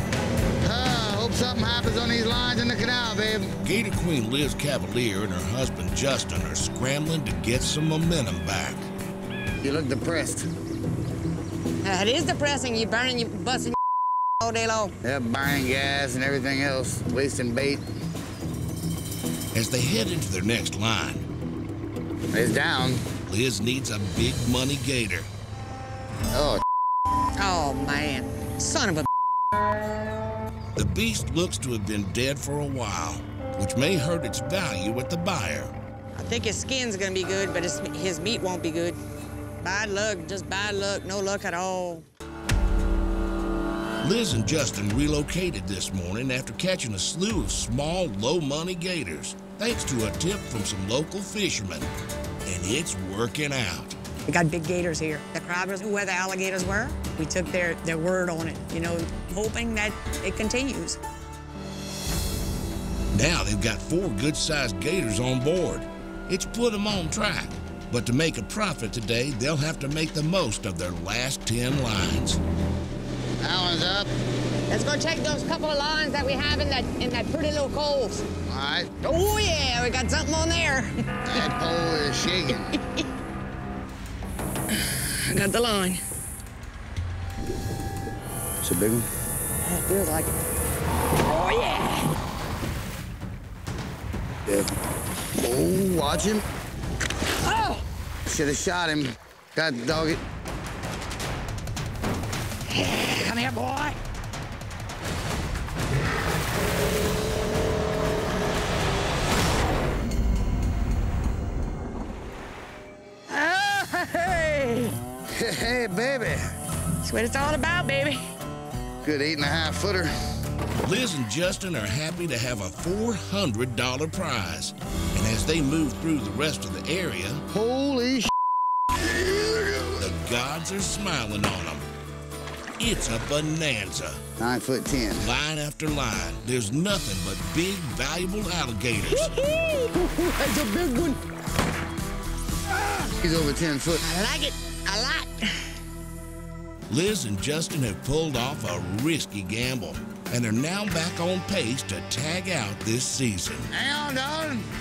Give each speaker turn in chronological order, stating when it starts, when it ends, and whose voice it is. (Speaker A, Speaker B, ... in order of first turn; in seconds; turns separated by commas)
Speaker A: 0.6-3.5, Speaker B: 3.6-8.9, Speaker A: 9.6-10.5, Speaker C: 11.8-13.8, Speaker C: 14.4-14.9, Speaker A: 15.0-17.8, Speaker B: 19.5-21.3, Speaker A: 22.3-23.0, Speaker B: 23.2-25.3, Speaker A: 26.3-26.6, Speaker C: 27.4-29.1, Speaker B: 30.7-35.7, Speaker C: 36.1-39.0, Speaker C: 39.6-42.0, Speaker B: 44.0-51.9, Speaker B: 52.4-53.9, Speaker C: 54.3-61.0, Speaker B: 63.1-72.4, Speaker A: 73.4-74.1, Speaker C: 74.7-78.2, Speaker A: 78.5-78.9, Speaker C: 79.0-81.4, Speaker A: 81.3-82.8, Speaker C: 84.7-86.0, Speaker A: 88.6-89.0, Speaker C: 89.6-90.3, Speaker C: 91.2-92.1, Speaker A: 94.5-94.7, Speaker A: 95.3-96.4, Speaker C: 97.4-97.8, Speaker A: 98.2-100.2, Speaker C: 102.7-104.0, Speaker C: 113.3-115.0, Speaker A: 115.3-116.4, Speaker C: 117.0-118.2, Speaker A: 119.0-120.1, Speaker B: 120.8-127.4, Speaker A: 127.5-128.3, Speaker A: 128.9-130.0, Speaker B: 130.0-131.9, Speaker B: 132.8-134.2, Speaker A: 134.4-135.3, Speaker B: 135.2-139.4, Speaker C: 139.1-141.2, Speaker A: 143.2-144.0, Speaker C: 144.0-145.7, Speaker B: 146.9-153.7, Speaker A: 153.7-154.6